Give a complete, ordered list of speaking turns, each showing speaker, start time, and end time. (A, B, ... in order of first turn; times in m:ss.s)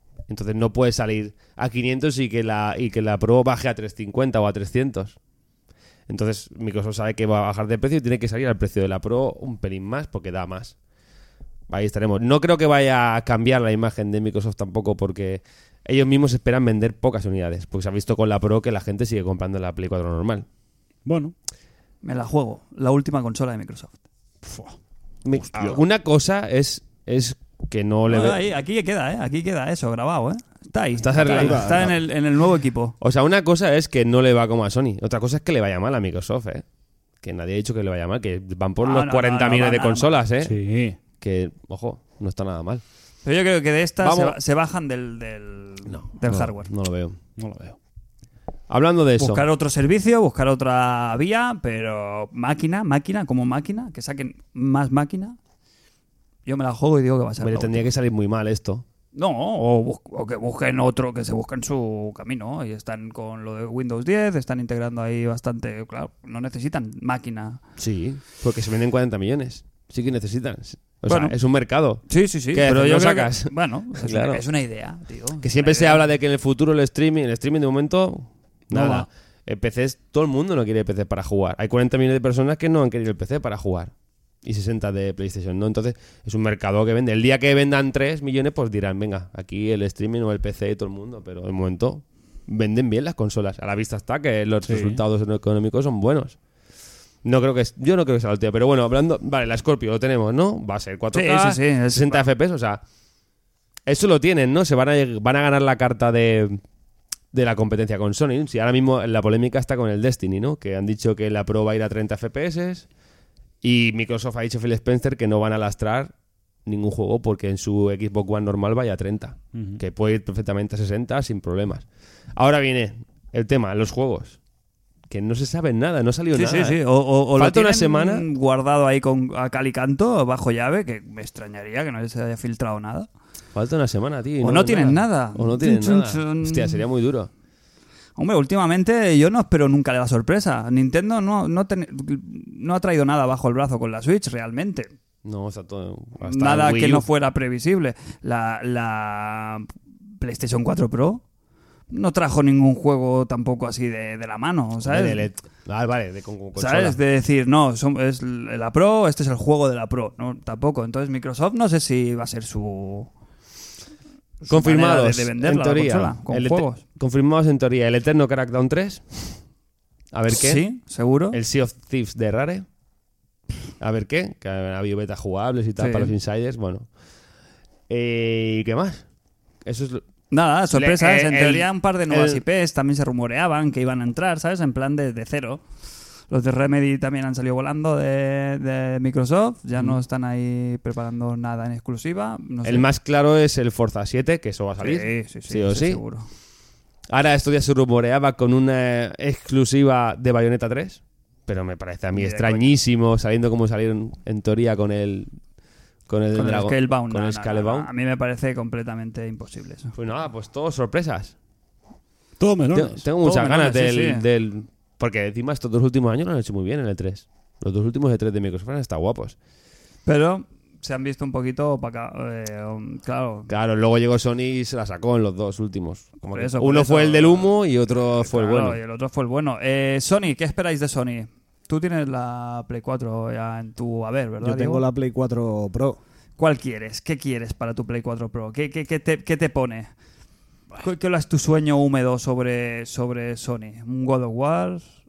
0:00.3-0:05.2 A
0:06.1-0:10.7 A
0:11.7-0:20.4 A
0:21.0-0:21.3 B
0:22.0-0:24.0 C
0:24.4-0:24.8 B
0:25.2-0:28.4 A
0:25.4-0:25.8 B
0:28.1-0:32.9 C
0:31.0-0:31.9 A
0:31.2-0:31.9 D
0:33.0-0:36.6 A
0:37.2-0:40.6 A
0:38.8-0:40.2 C
0:40.4-0:41.0 B
0:41.2-0:42.8 A
0:43.2-0:46.7 C
0:44.0-0:44.4 A
0:45.9-0:47.2 A
0:47.4-0:47.8 B
0:48.7-0:49.4 A
0:49.2-0:55.4 C
0:56.4-0:57.9 C
0:57.4-0:58.8 A
0:59.1-1:07.6 C
1:07.8-1:14.4 A
1:11.1-1:11.4 C
1:12.1-1:16.0 C
1:15.4-1:36.4 A
1:18.7-1:19.1 B
1:34.6-1:35.0 B
1:37.2-1:42.8 A
1:41.1-1:42.2 C
1:43.8-1:46.6 A
1:47.3-1:52.8 A
1:53.6-1:56.1 A
1:56.6-2:01.8 A
1:59.5-1:59.8 B
2:02.4-2:04.4 A
2:05.1-2:06.8 A
2:06.3-2:13.1 C
2:07.3-2:08.2 A
2:13.5-2:17.3 A
2:14.4-2:16.8 C
2:18.2-2:24.9 C
2:25.2-2:27.0 A
2:26.2-2:31.2 C
2:31.9-2:35.3 C
2:34.8-2:37.0 A
2:36.6-2:43.1 C
2:44.4-2:46.8 C
2:44.5-2:49.4 A
2:50.1-2:50.6 A
2:50.3-2:51.4 C
2:51.3-2:52.6 A
2:53.8-2:56.9 A
2:55.8-2:56.1 C
2:57.9-2:59.0 A
2:59.6-3:00.0 A
3:00.3-3:05.6 C
3:00.7-3:02.4 A
3:06.3-3:12.8 C
3:12.6-3:16.0 A
3:14.8-3:16.3 C
3:17.1-3:25.4 A
3:22.1-3:22.7 C
3:26.1-3:27.9 A
3:26.3-3:29.9 C
3:30.0-3:31.3 A
3:32.4-3:33.0 B
3:32.7-3:39.3 A
3:33.2-3:34.2 C
3:40.0-3:43.5 C
3:43.5-3:48.8 A
3:46.2-3:54.8 C
3:54.4-3:56.0 D
3:56.4-3:59.9 C
4:00.8-4:04.9 C